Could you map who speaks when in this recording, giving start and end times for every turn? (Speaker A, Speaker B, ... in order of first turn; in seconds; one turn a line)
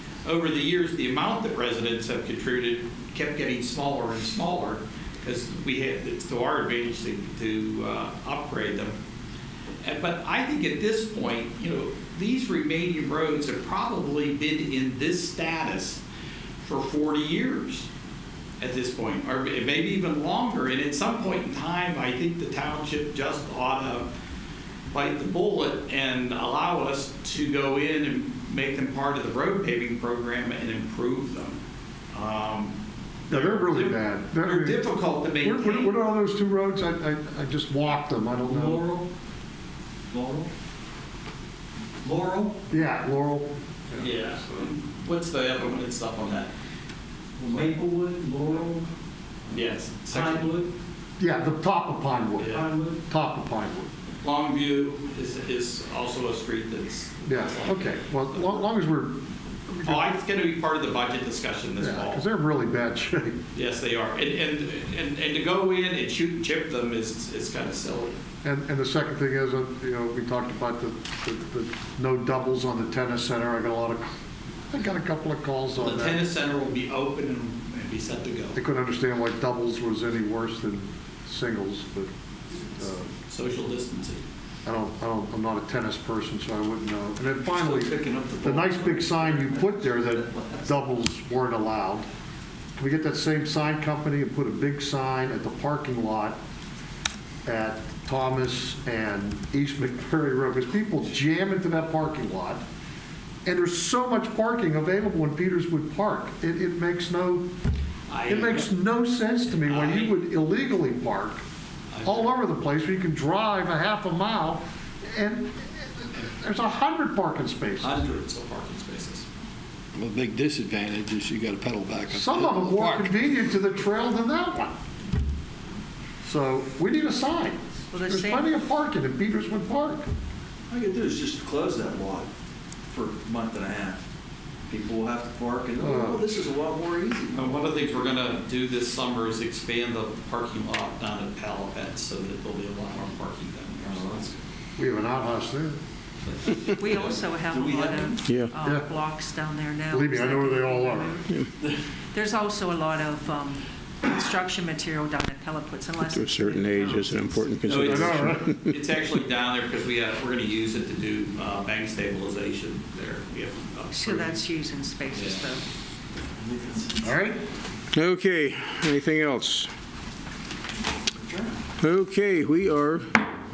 Speaker A: 0.2-9.0
Speaker A: 9.8-16.0
Speaker A: 16.6-17.9
Speaker A: 18.6-24.1
Speaker A: 24.9-31.6
Speaker A: 32.1-32.7
Speaker A: 33.3-36.0
Speaker B: 33.3-34.9
Speaker B: 35.4-38.9
Speaker C: 38.4-39.1
Speaker C: 40.1-40.5
Speaker C: 42.0-42.6
Speaker B: 42.7-44.6
Speaker A: 44.0-46.5
Speaker C: 47.4-48.9
Speaker A: 49.5-50.6
Speaker C: 50.1-50.7
Speaker B: 51.2-53.9
Speaker A: 52.4-52.7
Speaker C: 52.5-53.0
Speaker A: 54.2-58.7
Speaker B: 57.2-60.0
Speaker A: 59.8-62.2
Speaker B: 61.8-63.4
Speaker A: 63.5-68.2
Speaker B: 68.4-74.1
Speaker B: 74.7-76.2
Speaker A: 75.8-78.6
Speaker B: 78.5-82.1
Speaker B: 82.7-83.1
Speaker A: 83.3-84.2
Speaker B: 84.6-92.1
Speaker C: 87.5-90.7
Speaker B: 92.8-96.4
Speaker B: 97.4-102.6
Speaker B: 103.4-107.5
Speaker A: 108.1-108.7
Speaker B: 108.3-111.4
Speaker A: 109.5-110.2
Speaker A: 111.9-112.3
Speaker B: 112.0-118.0
Speaker A: 117.8-119.3
Speaker D: 120.0-122.4
Speaker B: 122.1-124.7
Speaker B: 126.2-130.1
Speaker E: 127.9-128.5
Speaker C: 130.7-132.3
Speaker C: 132.9-134.0
Speaker C: 134.7-137.5
Speaker B: 135.8-136.4
Speaker A: 137.3-144.4
Speaker C: 143.8-144.2
Speaker B: 144.8-145.8
Speaker A: 146.3-147.1
Speaker E: 146.8-151.3
Speaker C: 147.5-148.2
Speaker F: 148.3-148.5
Speaker B: 148.6-148.9
Speaker B: 149.9-151.1
Speaker E: 152.1-157.6
Speaker F: 156.0-158.7
Speaker A: 157.7-164.4
Speaker B: 157.9-158.4
Speaker E: 163.9-165.6
Speaker A: 165.1-165.4
Speaker C: 166.4-167.0
Speaker B: 167.0-167.4
Speaker F: 167.9-169.7
Speaker C: 171.2-171.5
Speaker F: 171.8-173.1